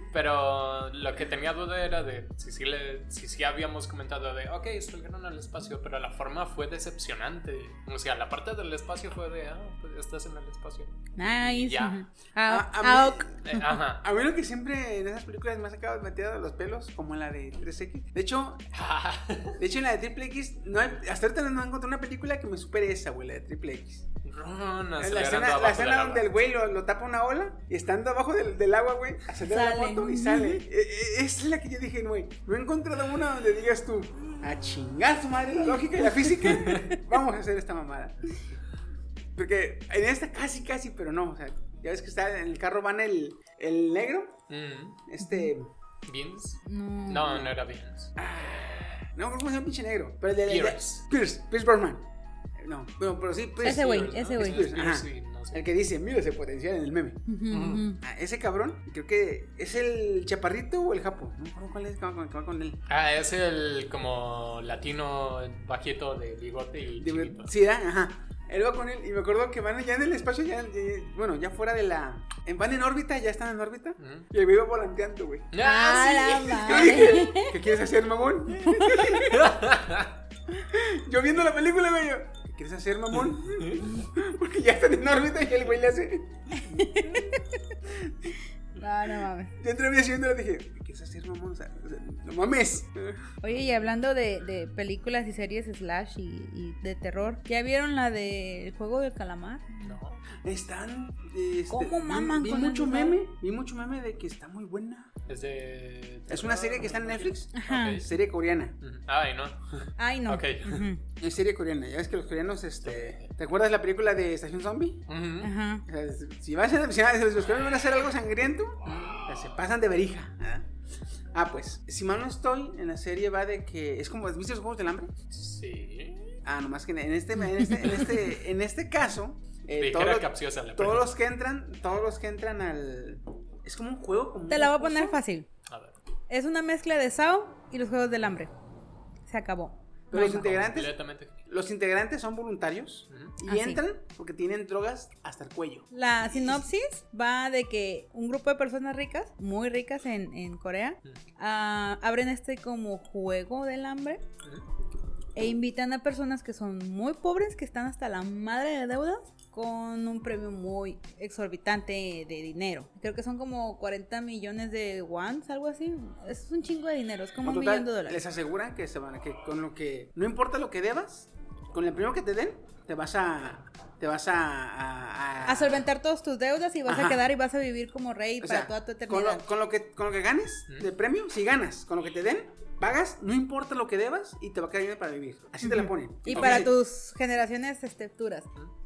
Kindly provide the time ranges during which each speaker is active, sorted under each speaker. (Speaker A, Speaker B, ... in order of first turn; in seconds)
Speaker A: 0.1-12.0, 13.4-14.0, 18.7-19.6, 24.2-26.4, 36.5-36.9, 44.5-45.0, 46.1-48.1, 50.5-51.0, 53.6-55.6, 57.5-57.9, 62.9-67.5, 74.0-74.3, 75.5-77.0, 79.3-80.1, 83.5-83.8, 99.8-100.2, 105.3-108.1, 108.8-110.9, 112.8-113.3, 115.1-115.5, 118.8-119.4, 125.3-126.4, 129.8-131.2, 135.7-136.0, 140.2-141.4, 186.3-186.7
Speaker B: 11.2-13.3, 29.5-30.6, 45.2-45.5, 46.6-47.5, 53.6-54.6, 57.3-58.0, 75.6-77.5, 78.6-79.2, 86.5-87.4, 88.8-89.5, 93.4-100.0, 101.7-103.2, 107.5-108.0, 110.0-111.0, 115.4-115.8, 134.5-135.5, 136.3-138.5, 139.3-140.5, 143.5-143.8, 145.9-154.2, 155.3-168.2, 175.4-179.4, 185.6-188.5
Speaker C: 12.5-18.6, 19.6-24.1, 25.0-38.2, 39.4-44.4, 45.1-45.7, 48.2-57.2, 58.0-62.8, 67.0-75.5, 76.5-79.6, 80.6-86.3, 87.9-88.1, 89.6-93.2, 100.4-105.1, 106.3-108.8, 111.2-115.0, 115.9-120.7, 121.3-125.2, 126.5-135.2, 140.1-140.9, 141.5-146.6, 167.4-175.8, 176.9-177.2, 178.4-186.7